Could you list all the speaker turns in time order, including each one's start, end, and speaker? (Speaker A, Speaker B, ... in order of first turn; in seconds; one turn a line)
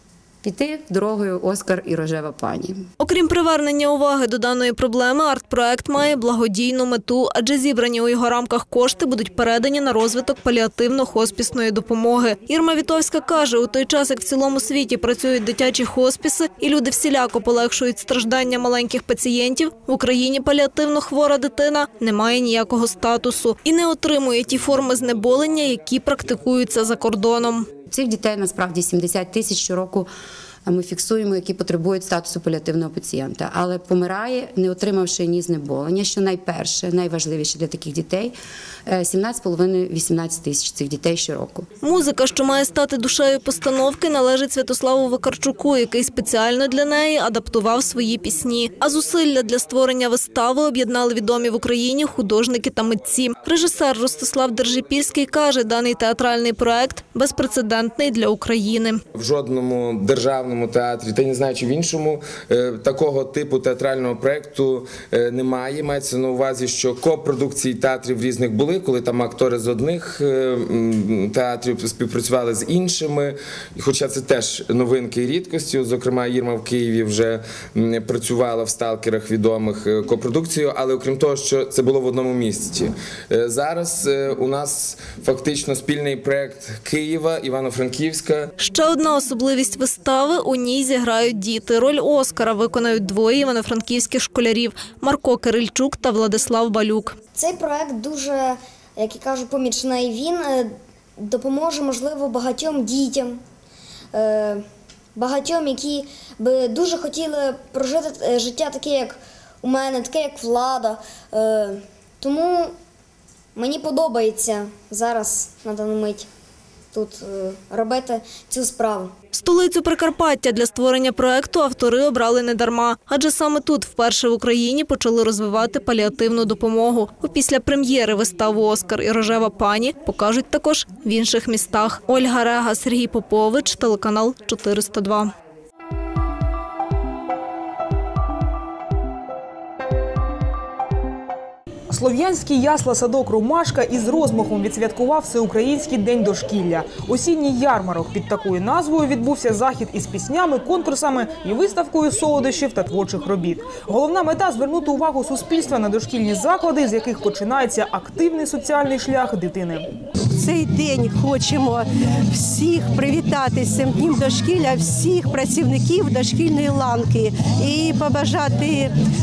Speaker A: 0.4-2.9
Speaker B: 3.0-27.7
Speaker A: 27.9-30.1
Speaker A: 30.6-38.3
Speaker A: 38.9-41.7
Speaker B: 41.8-59.0
Speaker C: 59.1-88.5
Speaker B: 88.6-97.1
Speaker D: 97.3-103.4
Speaker D: 104.1-104.6
Speaker D: 105.2-112.7
Speaker D: 113.5-116.3
Speaker D: 116.9-119.1
Speaker B: 119.3-135.3
Speaker E: 141.9-159.8
Speaker F: 160.3-168.9